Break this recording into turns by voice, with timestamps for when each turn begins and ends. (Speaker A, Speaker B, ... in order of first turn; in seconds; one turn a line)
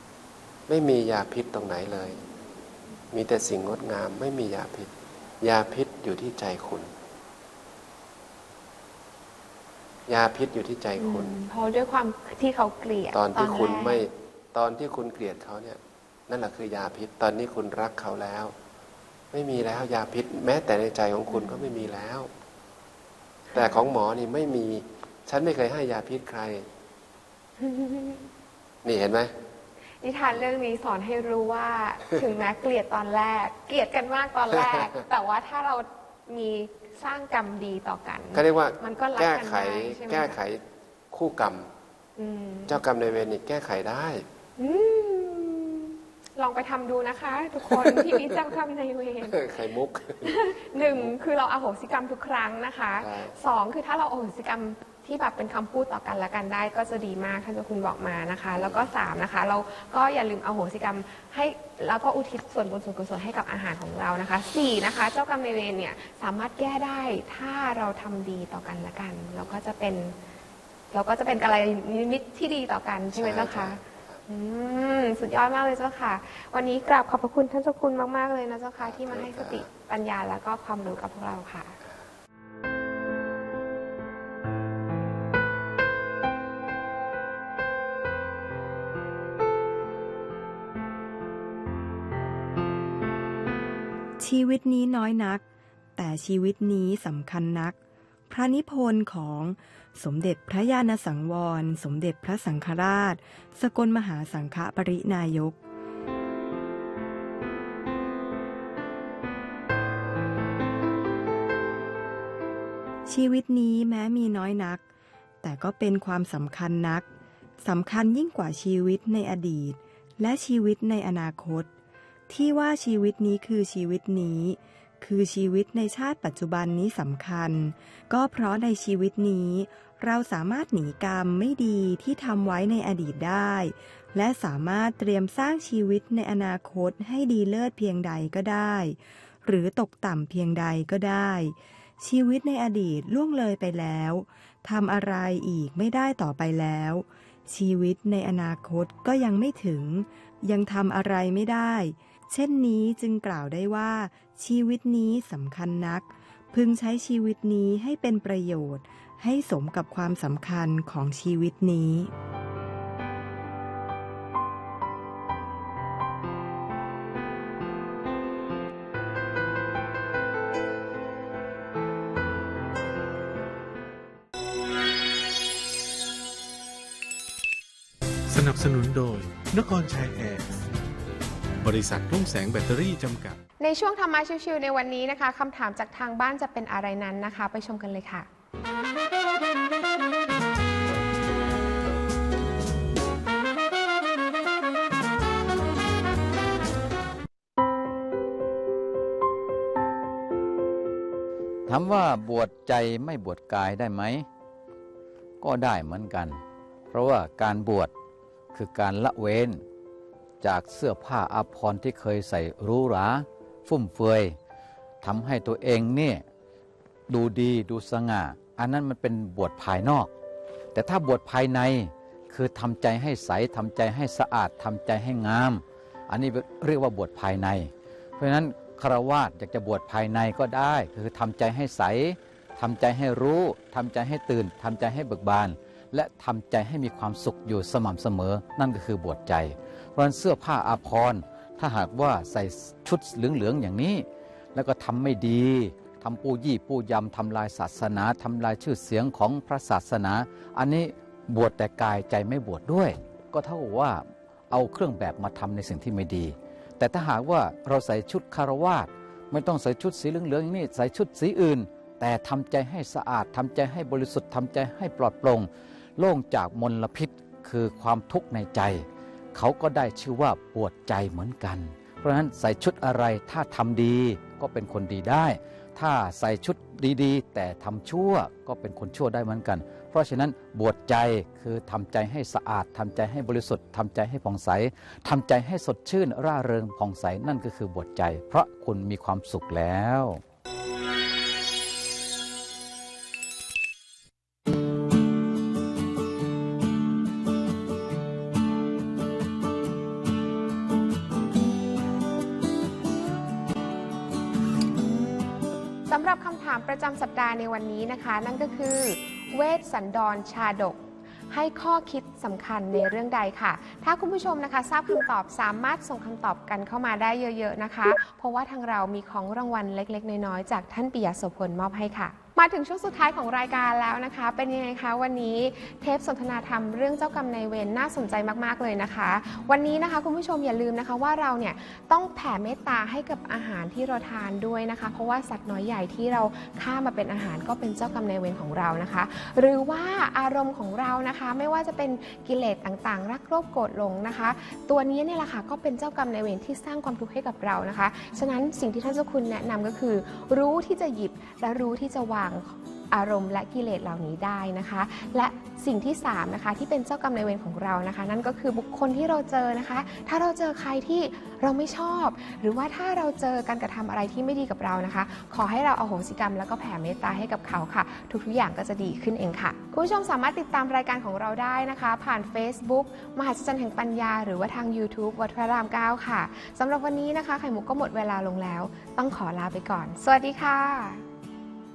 Speaker A: 0.7-2.2
Speaker A: 3.1-6.9
Speaker A: 10.1-11.3
Speaker B: 11.0-14.0
Speaker A: 13.1-18.5
Speaker A: 19.3-22.3
Speaker B: 21.3-21.7
Speaker A: 23.5-26.7
Speaker B: 23.5-23.8
Speaker B: 27.6-28.3
Speaker A: 28.8-29.3
Speaker B: 30.0-40.4
Speaker A: 38.3-41.7
Speaker B: 42.2-42.8
Speaker A: 42.7-44.2
Speaker B: 44.6-49.5
Speaker A: 47.7-48.4
Speaker A: 49.3-51.1
Speaker B: 50.2-70.2
Speaker A: 53.0-53.3
Speaker A: 58.5-58.9
Speaker B: 70.9-81.8
Speaker A: 73.1-74.2
Speaker A: 78.8-79.7
Speaker C: 94.2-95.4
Speaker C: 96.0-97.8
Speaker C: 98.3-105.6
Speaker C: 113.1-114.8
Speaker C: 115.4-117.1
Speaker C: 117.6-121.7
Speaker C: 122.3-162.1
Speaker D: 178.3-180.6
Speaker D: 181.6-183.4
Speaker B: 183.6-188.3
Speaker E: 201.7-204.3
Speaker E: 205.4-206.4
Speaker E: 206.9-207.9
Speaker E: 208.5-209.6
Speaker E: 210.4-214.3
Speaker E: 215.0-216.2
Speaker E: 217.1-220.1
Speaker E: 220.7-244.0
Speaker E: 244.6-290.2
Speaker B: 305.9-310.8
Speaker B: 311.3-381.0